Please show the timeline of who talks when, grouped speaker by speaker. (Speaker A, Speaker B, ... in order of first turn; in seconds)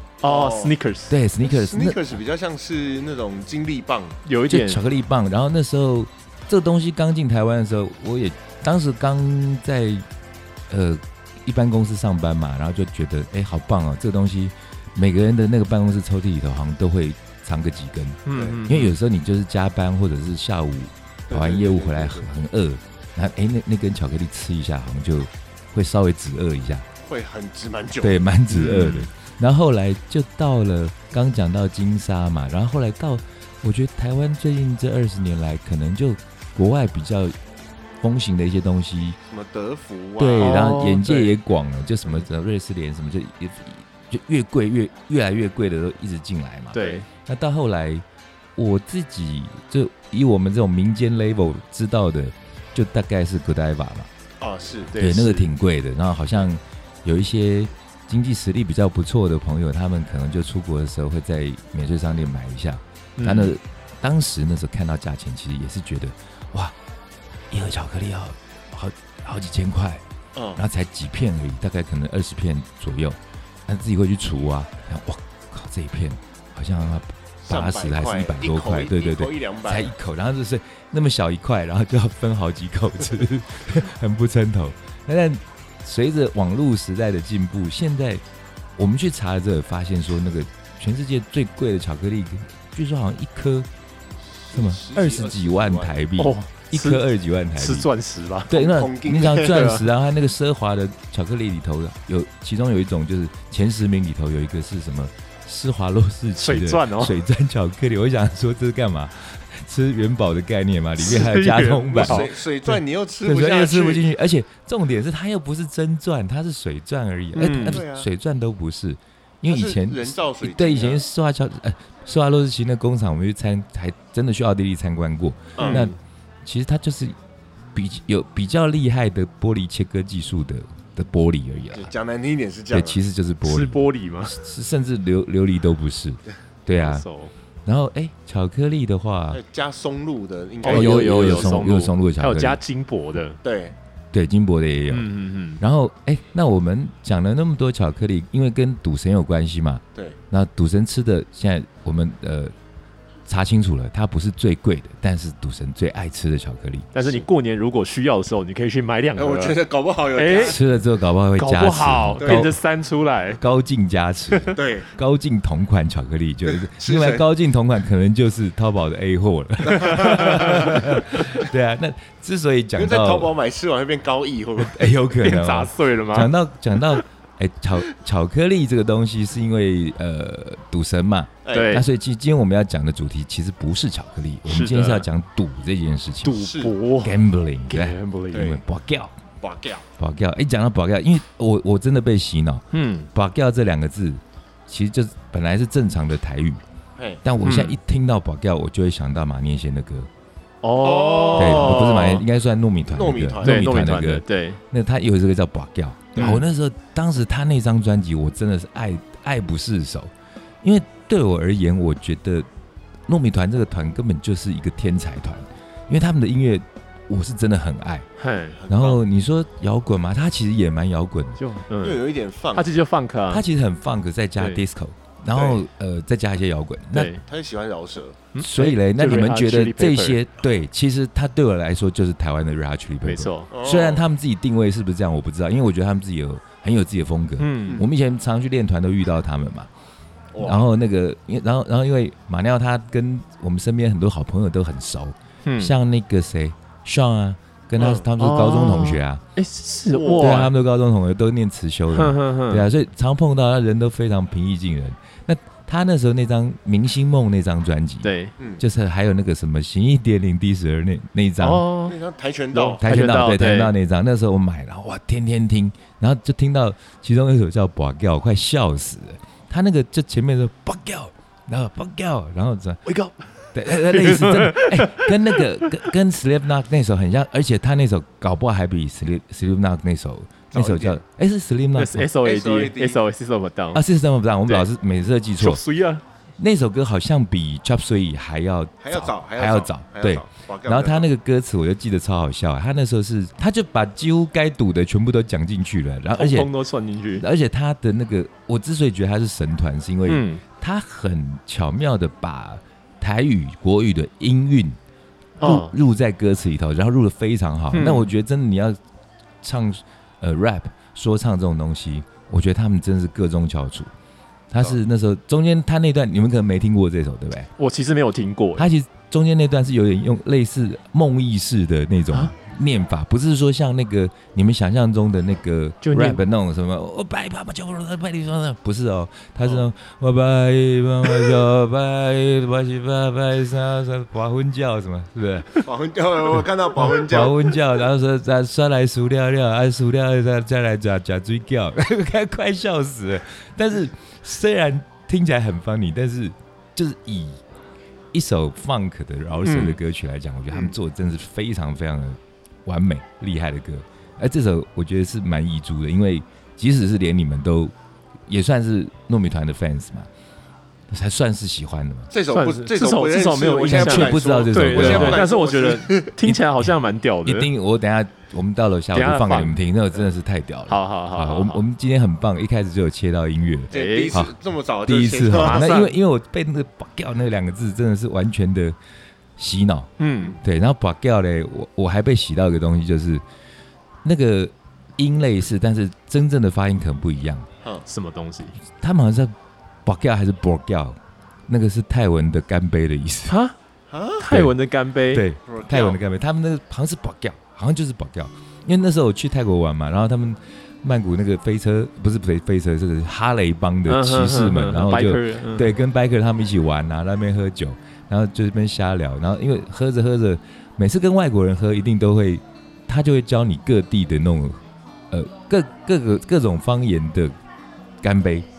Speaker A: 0.2-1.2, 4.2-4.8, 18.2-18.9, 28.5-29.1, 40.4-41.3, 46.7-47.0, 54.9-55.5, 63.2-63.5, 96.2-98.5, 99.4-99.9, 106.4-107.2, 111.0-112.3, 117.3-117.8, 125.6-125.9, 133.4-134.4, 136.7-137.3, 140.6-143.4, 144.9-145.6, 156.9-159.6, 160.1-160.6, 161.4-163.4, 169.9-170.4, 175.2-176.3, 181.5-181.8, 184.5-185.1, 186.2-187.2, 187.7-188.5, 192.7-193.1, 197.4-197.8, 200.6-202.2, 203.4-204.6, 206.1-206.4, 218.2-218.6, 221.4-222.0, 222.5-223.4, 226.9-227.2, 228.3-230.2, 233.0-233.5, 237.4-237.8, 245.4-245.7, 248.2-250.5, 251.9-252.7, 258.0-258.3, 261.4-262.0, 262.5-263.7, 273.7-275.8, 281.8-283.8, 285.4-286.0, 296.1-297.2, 300.1-300.4, 305.4-305.7, 307.7-308.1, 317.6-318.7, 325.8-326.2, 349.4-349.8, 362.3-367.5, 368.9-369.6, 370.7-371.6, 373.7-374.1, 375.3-375.9, 380.0-380.4, 387.9-388.6, 393.3-393.5, 394.2-395.2, 403.9-405.7
Speaker B: 0.2-0.7, 1.4-4.2, 18.3-18.6, 21.3-22.3, 27.1-29.0, 39.3-40.8, 46.7-47.0, 54.4-54.9, 70.3-70.6, 77.4-79.9, 94.4-96.0, 98.5-99.6, 111.9-114.1, 117.4-118.1, 119.5-121.0, 125.5-125.9, 131.7-133.0, 139.3-141.6, 143.4-143.7, 159.2-160.6, 162.2-162.5, 164.5-164.9, 166.4-167.2, 169.8-170.8, 172.7-174.9, 181.4-181.8, 186.3-186.7, 188.3-188.6, 189.4-189.8, 197.0-197.2, 200.8-202.0, 202.9-203.8, 218.5-219.0, 221.8-222.7, 225.3-225.6, 227.2-228.2, 233.5-234.1, 240.3-240.7, 247.8-248.1, 249.9-250.5, 261.8-262.8, 280.5-281.0, 282.2-283.0, 288.8-291.1, 335.6-337.6, 362.1-366.1, 373.7-375.8, 393.9-394.2, 395.4-396.0
Speaker C: 1.1-2.2, 4.5-10.1, 10.7-26.9, 28.0-37.4, 38.0-39.2, 40.2-48.0, 48.5-54.1, 55.0-66.7, 67.5-70.0, 70.5-88.2, 88.8-93.7, 94.5-97.9, 98.5-127.2, 127.7-131.9, 132.7-137.0, 137.7-139.4, 140.7-142.6, 144.1-152.5, 153.2-156.9, 160.4-162.6, 163.4-173.3, 174.6-186.4, 187.0-189.2, 190.0-196.6, 197.2-200.1, 201.3-212.5, 213.1-218.1, 218.7-221.4, 223.3-227.1, 228.4-239.7, 240.4-249.2, 250.2-261.6, 262.8-282.1, 283.7-285.6, 286.4-296.5, 297.2-304.8, 305.4-308.8, 309.4-313.9, 314.5-317.5, 318.6-335.6, 336.8-347.4, 348.1-357.7, 358.3-360.1, 360.9-362.1, 363.6-365.2, 366.2-366.7, 367.2-374.3, 374.8-378.8, 379.4-383.2, 384.0-387.5, 388.7-389.3, 389.8-393.4, 394.3-394.5, 395.1-414.6, 415.1-417.3, 418.0-418.5